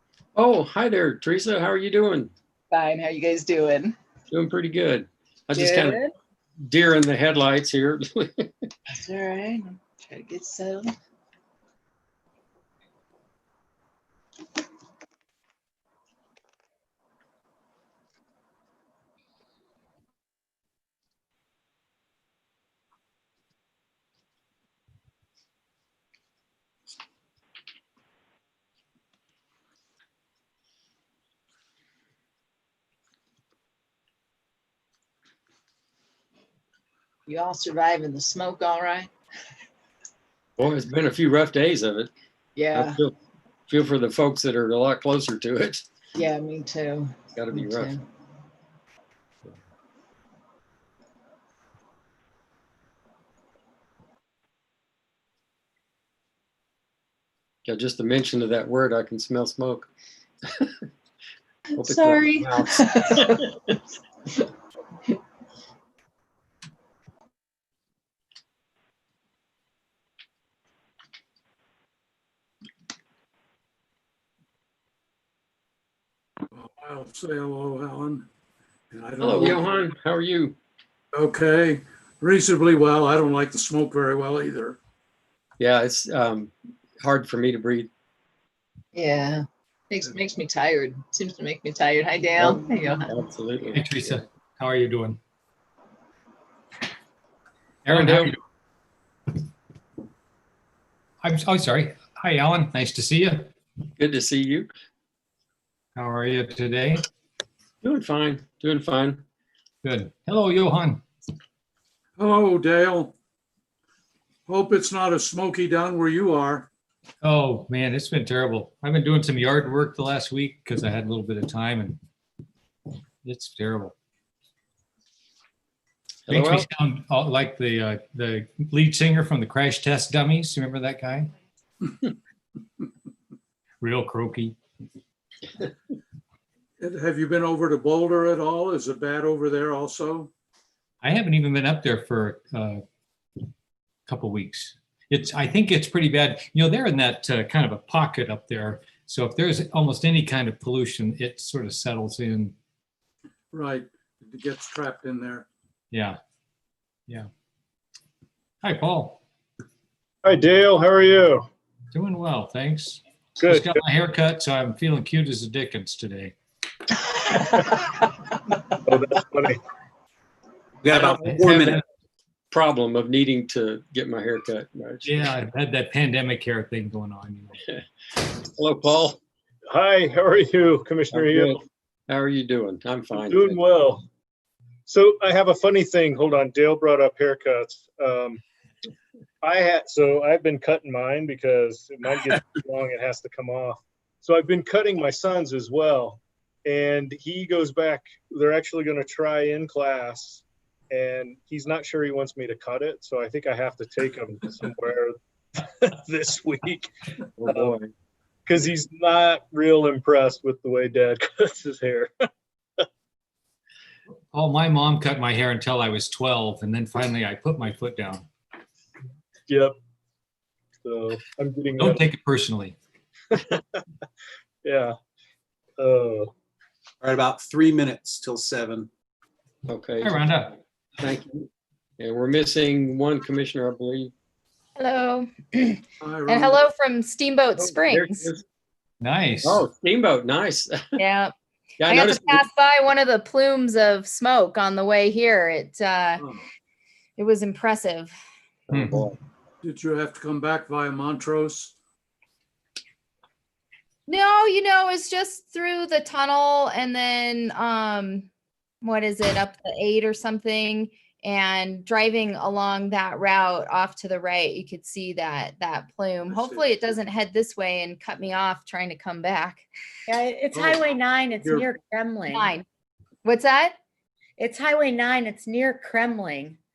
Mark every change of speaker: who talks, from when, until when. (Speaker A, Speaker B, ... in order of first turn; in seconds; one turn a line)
Speaker A: 0.4-2.3
Speaker B: 2.7-4.0
Speaker A: 4.3-6.0
Speaker B: 5.5-6.1
Speaker A: 6.6-8.5
Speaker B: 8.9-10.9
Speaker B: 37.3-39.1
Speaker A: 40.6-42.1
Speaker B: 42.6-43.0
Speaker A: 42.7-43.1
Speaker A: 43.7-45.9
Speaker B: 46.1-48.0
Speaker A: 47.4-48.0
Speaker A: 57.6-59.9
Speaker A: 60.5-60.7
Speaker A: 61.7-63.5
Speaker B: 61.8-63.5
Speaker C: 76.5-78.3
Speaker C: 78.9-79.8
Speaker A: 79.2-80.6
Speaker C: 81.1-84.8
Speaker A: 85.6-87.9
Speaker B: 88.9-93.2
Speaker A: 92.4-93.9
Speaker D: 93.7-95.2
Speaker D: 97.9-98.4
Speaker A: 97.9-98.3
Speaker D: 101.2-103.5
Speaker A: 104.0-104.7
Speaker D: 106.0-107.0
Speaker A: 107.8-109.2
Speaker D: 109.8-111.0
Speaker C: 112.2-113.2
Speaker C: 114.5-116.7
Speaker D: 117.2-122.0
Speaker D: 123.2-124.0
Speaker A: 126.3-126.7
Speaker D: 126.3-131.3
Speaker D: 133.8-134.6
Speaker C: 136.8-140.3
Speaker D: 141.0-142.8
Speaker D: 144.1-152.5
Speaker C: 153.5-155.5
Speaker D: 155.9-156.2
Speaker D: 158.6-159.2
Speaker E: 160.2-161.4
Speaker D: 161.9-166.3
Speaker E: 163.4-163.7
Speaker E: 168.9-169.6
Speaker F: 170.8-171.8
Speaker D: 171.0-171.8
Speaker A: 172.5-175.1
Speaker D: 175.0-177.6
Speaker A: 178.3-179.2
Speaker E: 179.7-181.6
Speaker A: 181.1-183.6
Speaker E: 183.1-184.1
Speaker E: 184.9-188.4
Speaker E: 189.4-206.9
Speaker A: 207.4-207.9
Speaker E: 207.4-207.8
Speaker E: 208.5-212.1
Speaker D: 214.3-218.3
Speaker E: 219.5-219.7
Speaker E: 220.8-222.0
Speaker D: 221.8-222.8
Speaker E: 223.3-223.8
Speaker E: 224.6-224.9
Speaker E: 225.8-226.3
Speaker F: 227.0-228.9
Speaker A: 229.7-230.2
Speaker D: 230.0-230.6
Speaker A: 231.0-234.1
Speaker G: 234.8-238.3
Speaker C: 236.0-236.6
Speaker A: 237.6-238.4
Speaker D: 239.0-239.6
Speaker A: 239.4-241.0
Speaker G: 241.0-241.3
Speaker A: 241.8-242.5
Speaker G: 241.8-246.3
Speaker G: 247.2-248.1
Speaker A: 248.7-249.2
Speaker D: 248.7-249.1
Speaker C: 249.6-251.8
Speaker G: 254.1-258.3
Speaker G: 258.8-269.6
Speaker C: 266.3-266.7
Speaker H: 270.1-272.5
Speaker C: 270.5-271.7
Speaker G: 272.3-272.6
Speaker G: 273.2-273.8
Speaker H: 274.4-276.6